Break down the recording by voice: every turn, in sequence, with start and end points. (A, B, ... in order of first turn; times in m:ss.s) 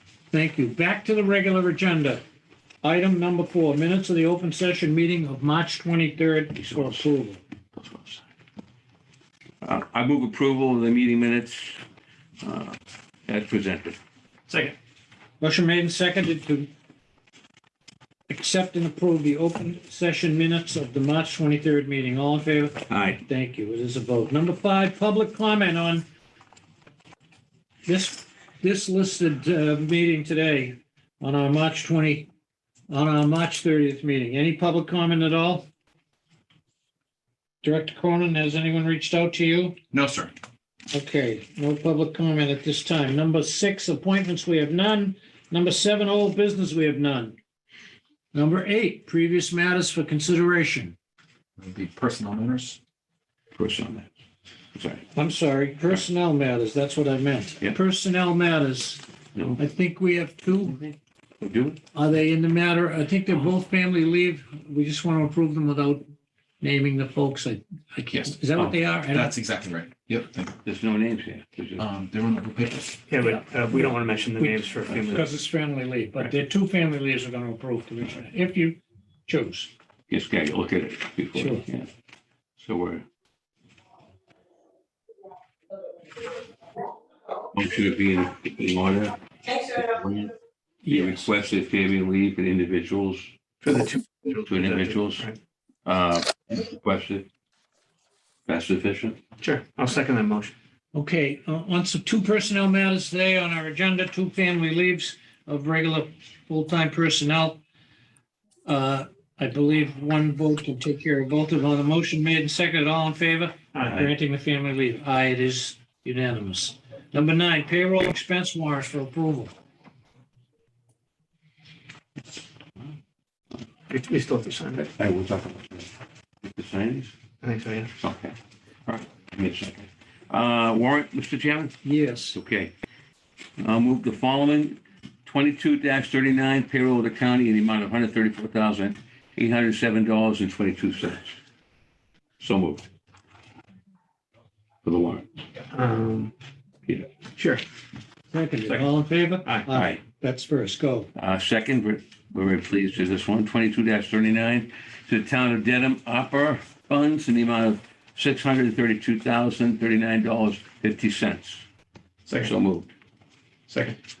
0:00.3-0:02.2 A
0:02.8-0:07.4 A
0:06.5-0:07.1 B
0:07.7-0:08.2 B
0:09.6-0:11.8 B
0:12.4-0:14.0 B
0:14.5-0:14.8 C
0:15.4-0:16.7 A
0:18.3-0:26.0 A
0:22.9-0:23.2 B
0:27.8-0:32.3 A
0:32.9-0:35.7 A
0:37.6-0:39.8 A
0:39.9-0:40.3 D
0:40.9-0:47.4 A
0:48.3-0:50.9 A
0:51.6-0:52.8 D
0:53.5-0:54.1 B
0:54.7-0:55.1 B
0:55.1-0:59.0 A
0:59.3-0:59.6 B
0:59.6-1:00.8 A
1:00.8-1:01.8 B
1:01.9-1:06.0 A
1:06.6-1:09.3 A
1:08.1-1:08.4 D
1:09.1-1:10.6 D
1:10.6-1:11.8 B
1:11.8-1:13.0 D
1:13.1-1:15.3 C
1:14.4-1:19.7 A
1:14.9-1:15.2 B
1:20.1-1:21.9 B
1:21.3-1:21.6 A
1:22.6-1:23.0 B
1:27.5-1:30.3 B
1:30.8-1:31.3 A
1:30.9-1:33.3 B
1:33.6-1:35.4 C
1:34.4-1:35.3 B
1:35.8-1:37.3 B
1:38.5-1:39.2 B
1:39.4-1:40.5 C
1:40.9-1:47.6 A
1:48.6-1:59.5 A
1:53.7-1:54.1 C
2:03.9-2:04.8 C
2:04.7-2:05.9 B
2:06.4-2:07.1 B
2:07.4-2:07.9 C
2:08.0-2:08.4 B
2:08.9-2:12.7 B
2:11.8-2:12.4 A
2:13.6-2:21.4 B
2:22.4-2:22.9 B
2:24.8-2:25.3 B
2:25.7-2:26.3 C
2:27.3-2:27.6 C
2:28.3-2:31.1 A
2:29.7-2:30.0 B
2:31.1-2:41.6 B
2:42.2-2:42.5 C
2:42.4-2:42.9 B
2:43.7-2:44.0 C